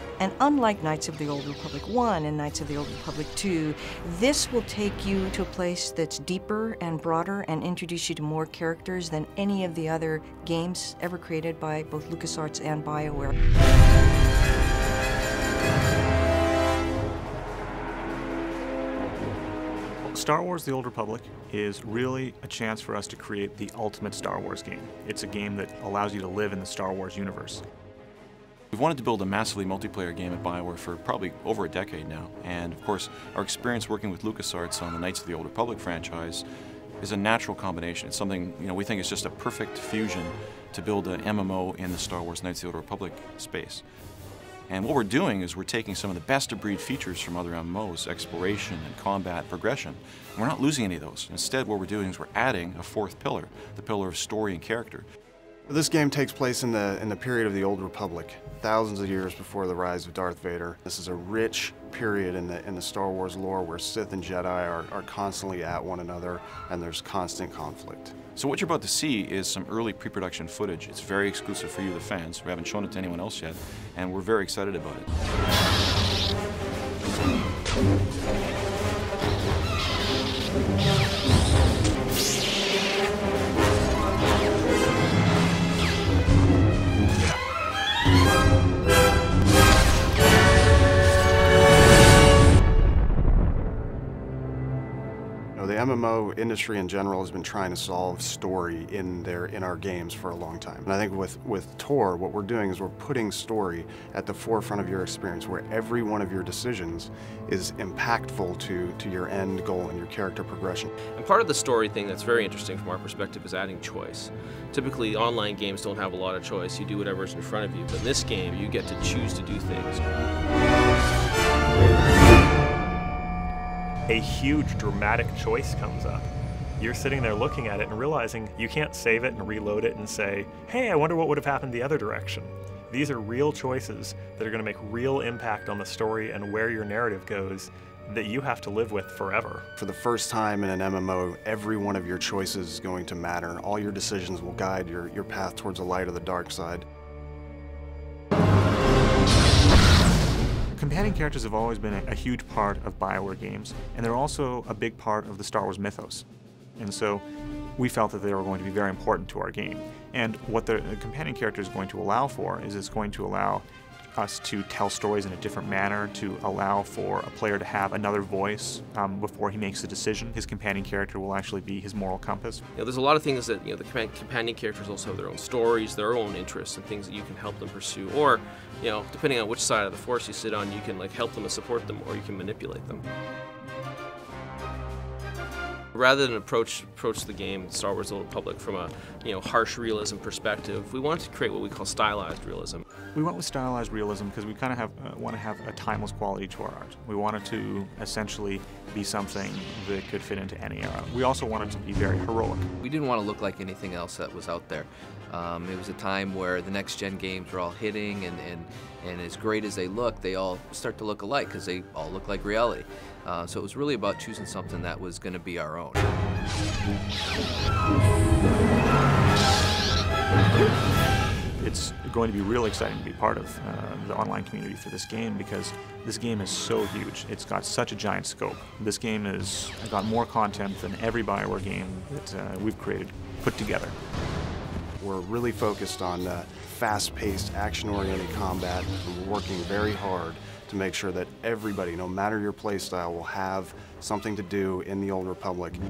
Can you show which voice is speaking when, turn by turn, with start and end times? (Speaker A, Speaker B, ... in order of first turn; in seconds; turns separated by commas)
Speaker A: 0.2-13.3, Speaker B: 20.1-27.6, Speaker C: 28.7-36.4, Speaker C: 37.0-43.8, Speaker C: 44.7-55.0, Speaker D: 55.7-68.1, Speaker C: 68.3-75.1, Speaker D: 95.5-110.9, Speaker E: 111.2-120.0, Speaker F: 124.1-126.2, Speaker F: 126.8-139.7, Speaker D: 139.8-146.8, Speaker B: 150.8-156.2, Speaker B: 156.8-157.2, Speaker B: 157.8-172.6, Speaker E: 172.8-183.0, Speaker E: 185.9-192.8, Speaker B: 193.1-202.7, Speaker G: 202.8-216.1, Speaker B: 221.6-234.0, Speaker D: 235.0-245.8